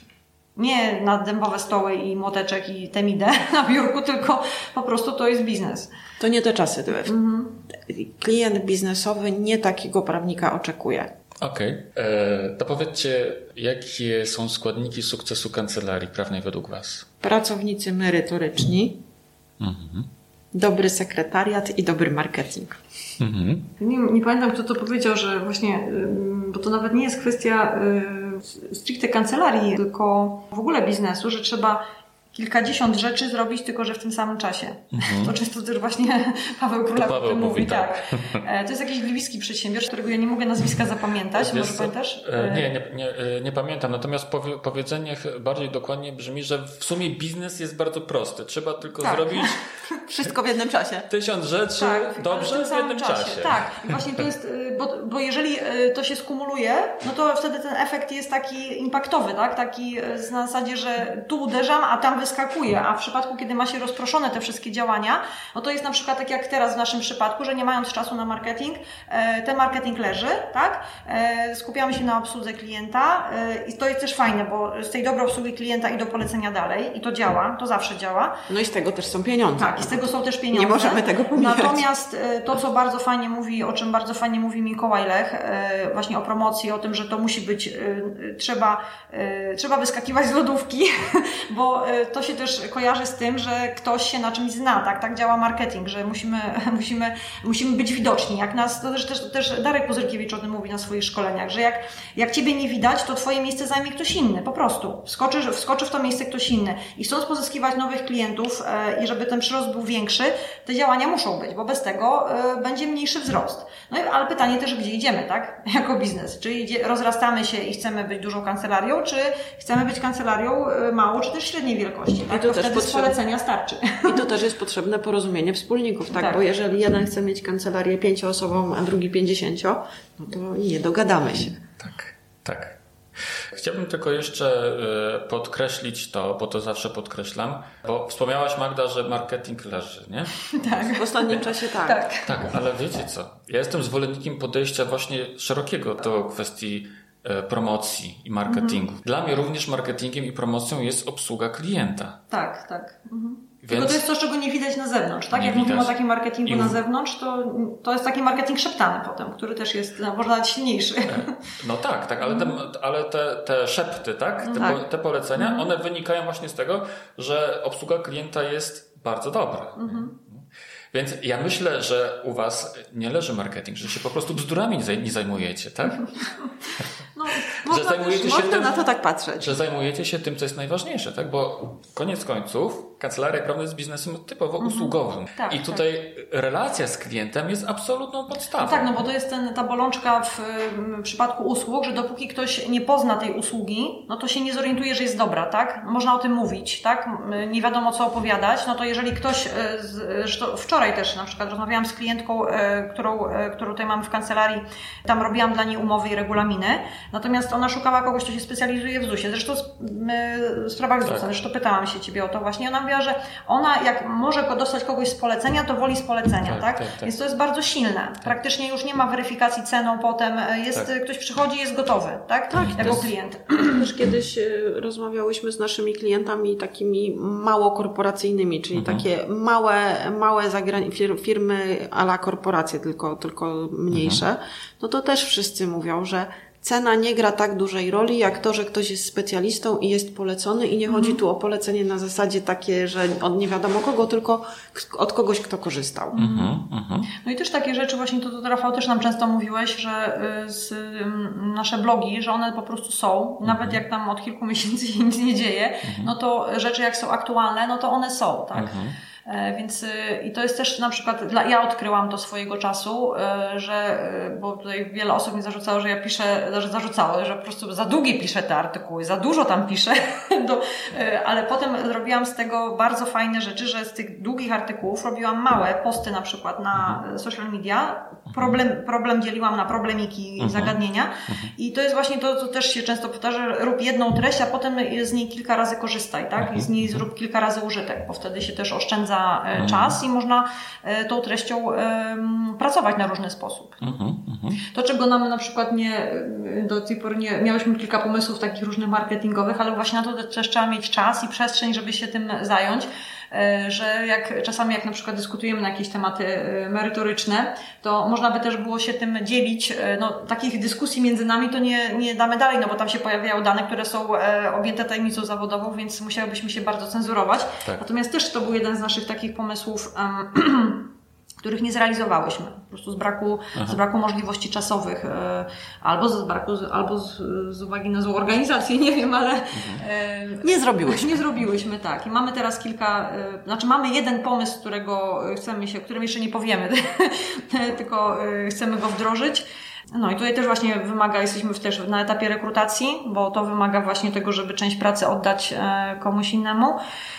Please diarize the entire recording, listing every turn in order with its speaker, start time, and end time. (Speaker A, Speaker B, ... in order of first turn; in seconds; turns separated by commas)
Speaker A: 0.6-5.9, Speaker B: 6.2-7.2, Speaker A: 7.0-7.6, Speaker B: 7.8-11.1, Speaker C: 11.4-17.1, Speaker B: 17.2-19.0, Speaker C: 19.6-20.1, Speaker B: 20.5-22.8, Speaker C: 23.2-23.7, Speaker A: 23.8-31.8, Speaker A: 32.3-42.7, Speaker C: 34.9-35.3, Speaker C: 37.0-38.4, Speaker C: 41.4-49.6, Speaker B: 50.1-51.1, Speaker C: 51.1-54.2, Speaker A: 51.8-78.4, Speaker B: 78.5-81.8, Speaker A: 79.6-124.3, Speaker B: 122.3-123.2, Speaker B: 124.0-131.6, Speaker A: 126.1-126.4, Speaker C: 131.8-132.8, Speaker C: 133.4-140.9, Speaker A: 140.5-142.3, Speaker B: 140.9-142.1, Speaker C: 142.2-152.2, Speaker A: 148.5-148.8, Speaker A: 152.3-161.4, Speaker C: 153.6-154.0, Speaker C: 155.3-156.8, Speaker C: 161.1-176.1, Speaker A: 162.2-162.6, Speaker A: 164.4-164.8, Speaker A: 165.4-165.7, Speaker A: 169.8-170.2, Speaker A: 177.2-178.7, Speaker C: 177.6-178.8, Speaker B: 178.0-179.6, Speaker C: 179.4-188.9, Speaker A: 184.6-185.8, Speaker A: 188.6-223.9, Speaker C: 211.0-211.3, Speaker C: 216.4-217.1, Speaker C: 222.5-223.1, Speaker B: 223.6-246.2, Speaker C: 228.8-229.1, Speaker C: 233.9-234.2, Speaker A: 240.9-241.2, Speaker A: 246.1-246.6, Speaker C: 246.2-247.1, Speaker A: 247.1-258.8, Speaker C: 253.4-253.8, Speaker C: 255.8-256.1, Speaker C: 258.6-259.0, Speaker A: 259.3-294.0, Speaker C: 276.7-277.0, Speaker C: 278.3-278.6, Speaker C: 280.4-280.8, Speaker C: 286.4-287.0, Speaker C: 289.6-290.0, Speaker C: 293.8-294.6, Speaker A: 294.6-320.9, Speaker A: 321.4-346.8, Speaker C: 329.6-329.8, Speaker B: 330.4-331.2